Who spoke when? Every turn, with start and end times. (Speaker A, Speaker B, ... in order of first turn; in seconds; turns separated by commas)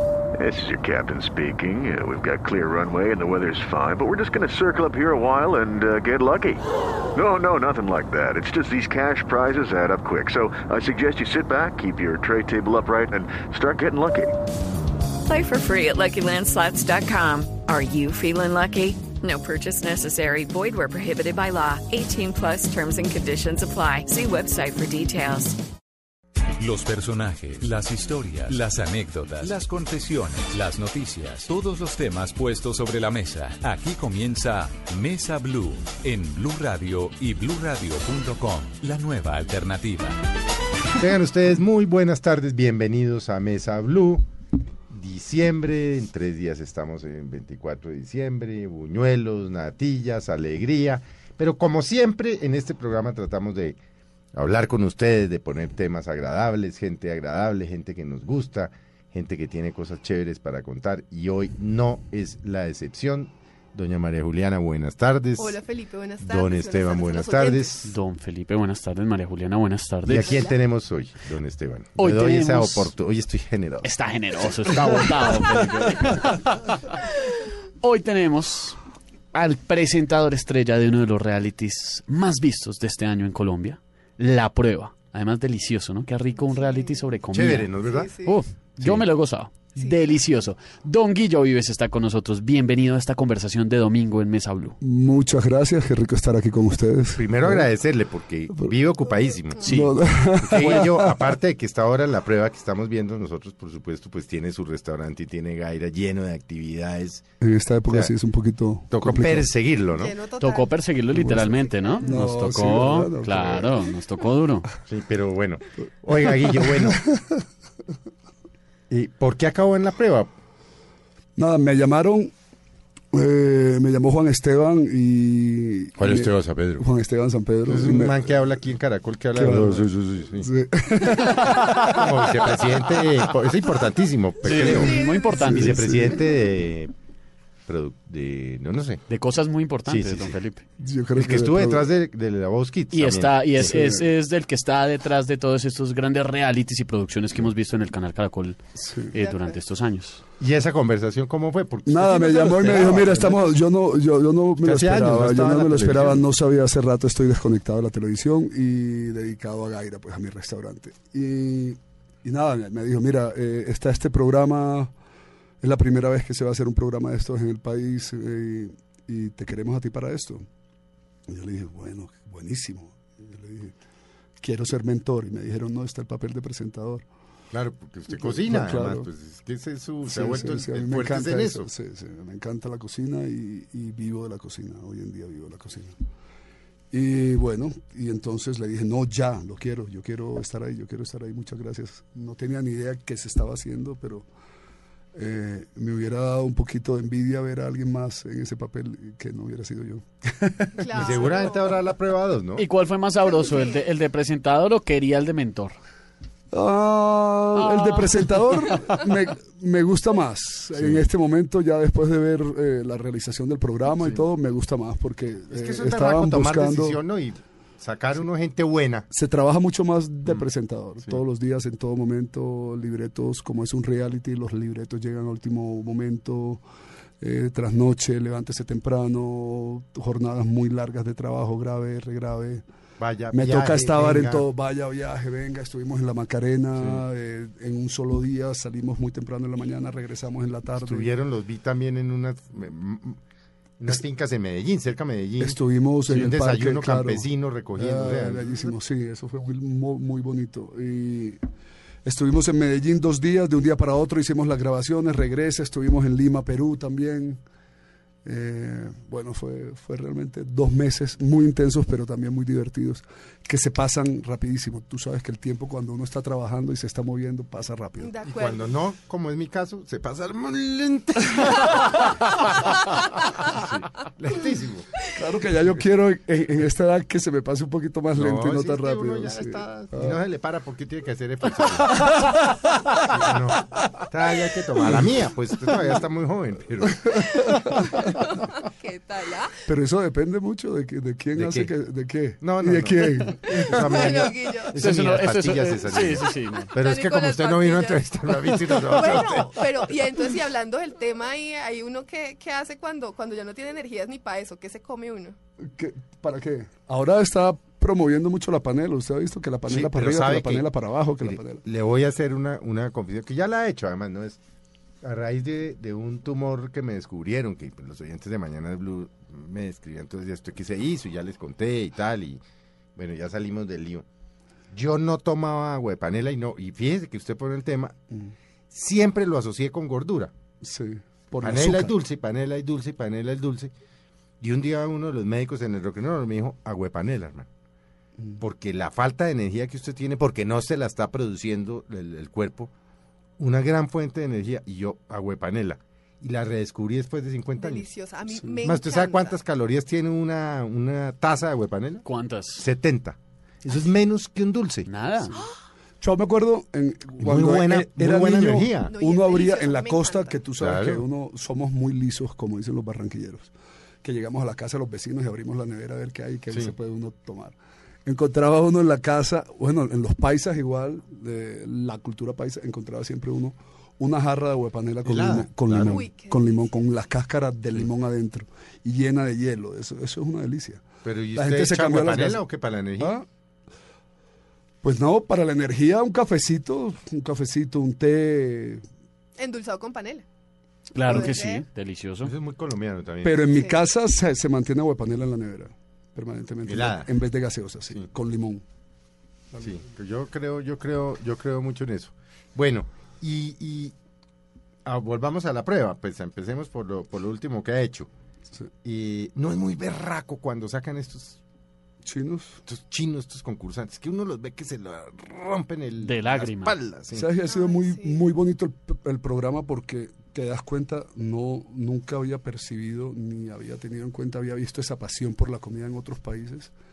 Speaker A: 0.4-14.4, Speaker B: 15.2-25.6, Speaker C: 26.6-40.2, Speaker D: 41.0-44.2, Speaker D: 44.9-53.8, Speaker D: 54.3-65.6, Speaker E: 65.4-67.9, Speaker D: 66.2-67.9, Speaker F: 67.8-70.5, Speaker D: 70.0-73.9, Speaker E: 70.1-70.6, Speaker F: 72.0-72.9, Speaker F: 73.8-78.8, Speaker D: 74.6-75.0, Speaker F: 79.3-94.8, Speaker E: 86.3-87.1, Speaker D: 87.3-88.1, Speaker E: 87.7-88.4, Speaker G: 94.8-97.7, Speaker D: 97.2-99.8, Speaker E: 99.1-99.7, Speaker F: 99.6-100.0, Speaker G: 99.6-101.2, Speaker D: 100.4-107.2, Speaker G: 107.4-109.5, Speaker D: 108.9-110.1, Speaker E: 109.9-110.7, Speaker F: 110.3-114.7, Speaker G: 111.1-113.7, Speaker E: 111.7-112.1, Speaker D: 114.8-117.0, Speaker G: 116.2-117.4, Speaker D: 118.9-120.3, Speaker G: 121.3-122.3, Speaker G: 123.1-128.4, Speaker D: 126.0-126.8, Speaker D: 127.7-130.5, Speaker G: 129.3-132.1, Speaker F: 131.4-132.0, Speaker D: 131.8-136.9, Speaker F: 134.4-135.9, Speaker E: 134.6-135.6, Speaker G: 134.6-136.2, Speaker D: 137.7-139.0, Speaker F: 139.1-140.6, Speaker D: 139.8-140.4, Speaker G: 140.8-141.9, Speaker D: 141.1-143.9, Speaker F: 142.9-150.2, Speaker G: 143.6-144.0, Speaker G: 148.7-149.2, Speaker E: 149.1-149.6, Speaker D: 150.4-153.5, Speaker G: 151.8-164.9, Speaker D: 154.6-156.2, Speaker G: 165.6-170.4, Speaker G: 171.3-173.7, Speaker G: 174.4-177.0, Speaker D: 177.5-181.7, Speaker G: 178.1-179.1, Speaker G: 180.0-185.9, Speaker G: 186.9-194.2, Speaker G: 195.1-201.2, Speaker E: 200.8-201.8, Speaker D: 200.9-202.7, Speaker F: 202.6-205.8, Speaker E: 203.2-203.9, Speaker G: 206.5-217.0, Speaker F: 207.6-208.3, Speaker D: 210.7-211.1, Speaker D: 215.5-219.1, Speaker G: 219.1-226.6, Speaker G: 227.2-232.6, Speaker D: 233.0-234.5, Speaker G: 233.3-241.1, Speaker D: 236.8-237.0, Speaker D: 240.7-243.2, Speaker D: 243.8-248.7, Speaker G: 245.4-251.4, Speaker G: 252.0-257.4, Speaker G: 258.2-268.1, Speaker E: 268.0-268.7, Speaker D: 268.3-272.4, Speaker D: 273.0-274.9, Speaker G: 275.1-280.2, Speaker D: 278.1-282.1, Speaker D: 283.0-287.2, Speaker E: 287.2-289.5, Speaker G: 287.2-288.3, Speaker G: 289.6-294.2, Speaker D: 291.3-291.7, Speaker D: 292.4-299.6, Speaker E: 293.6-294.8, Speaker F: 294.7-296.7, Speaker E: 296.7-305.4, Speaker G: 305.6-311.6, Speaker D: 309.7-310.7, Speaker D: 311.2-314.4, Speaker D: 315.0-322.4, Speaker D: 322.9-324.0, Speaker D: 324.7-327.9, Speaker D: 328.7-330.3, Speaker G: 330.6-331.9, Speaker D: 331.4-333.7, Speaker D: 334.4-337.5, Speaker D: 338.4-342.7, Speaker D: 343.4-347.9, Speaker E: 347.6-349.4, Speaker D: 348.6-354.9, Speaker F: 352.0-352.6, Speaker F: 354.9-355.4, Speaker G: 356.0-382.4, Speaker D: 357.2-358.9, Speaker E: 358.9-360.4, Speaker D: 360.6-361.0, Speaker D: 375.0-376.0, Speaker E: 375.8-376.5, Speaker D: 381.0-383.2, Speaker G: 383.0-383.2, Speaker G: 384.8-388.8, Speaker E: 389.4-390.2, Speaker F: 390.9-392.3, Speaker E: 391.0-391.6, Speaker D: 392.2-393.4, Speaker G: 393.2-398.6, Speaker E: 393.5-393.8, Speaker D: 396.6-397.1, Speaker D: 399.6-403.9, Speaker D: 404.8-408.1, Speaker D: 408.8-411.4, Speaker G: 412.0-412.6, Speaker D: 412.6-417.3, Speaker F: 416.0-416.7, Speaker G: 417.1-426.7, Speaker E: 417.5-418.2